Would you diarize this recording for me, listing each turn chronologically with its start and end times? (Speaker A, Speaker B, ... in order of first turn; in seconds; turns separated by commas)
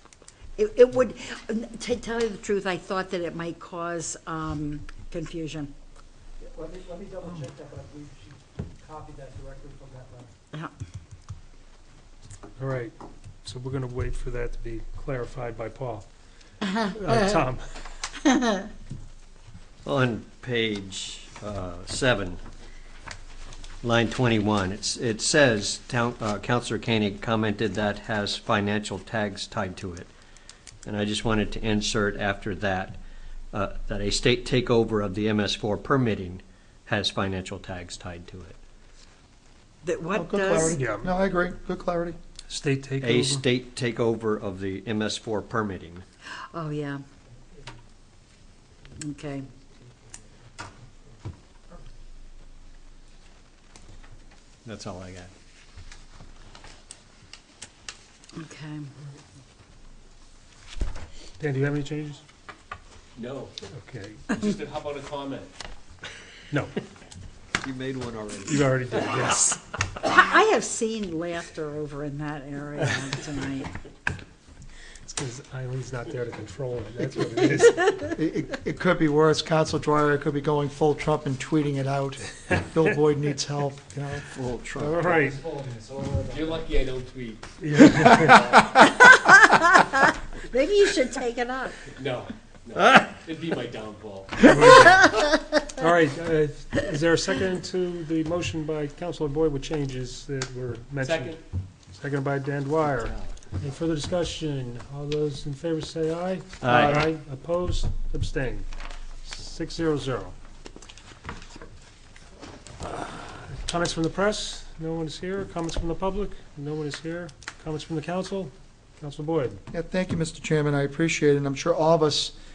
Speaker A: 0.6-5.7, Speaker B: 6.4-10.3, Speaker C: 12.6-12.9, Speaker C: 13.4-16.1, Speaker A: 16.6-17.2, Speaker C: 16.9-17.6, Speaker A: 18.2-18.7, Speaker D: 19.8-22.4, Speaker D: 23.8-30.1, Speaker D: 30.9-33.0, Speaker D: 33.5-38.6, Speaker A: 39.8-40.8, Speaker E: 40.2-42.2, Speaker C: 40.8-41.1, Speaker C: 42.5-43.4, Speaker D: 43.0-46.0, Speaker A: 46.5-47.0, Speaker A: 49.0-49.5, Speaker D: 54.6-55.3, Speaker A: 58.4-58.9, Speaker C: 61.4-62.2, Speaker F: 63.2-63.5, Speaker C: 63.7-64.3, Speaker F: 64.3-65.5, Speaker D: 67.6-68.6, Speaker C: 68.5-69.6, Speaker A: 70.0-73.7, Speaker C: 75.0-78.0, Speaker E: 78.1-85.1, Speaker C: 84.8-85.4, Speaker B: 85.6-86.6, Speaker F: 86.2-88.8, Speaker C: 87.6-88.5, Speaker A: 88.8-91.9, Speaker F: 91.9-94.5, Speaker C: 94.4-101.4, Speaker F: 101.0-101.4, Speaker C: 102.0-108.7, Speaker D: 106.6-107.1, Speaker C: 109.2-110.3, Speaker C: 112.9-119.6, Speaker E: 119.7-122.3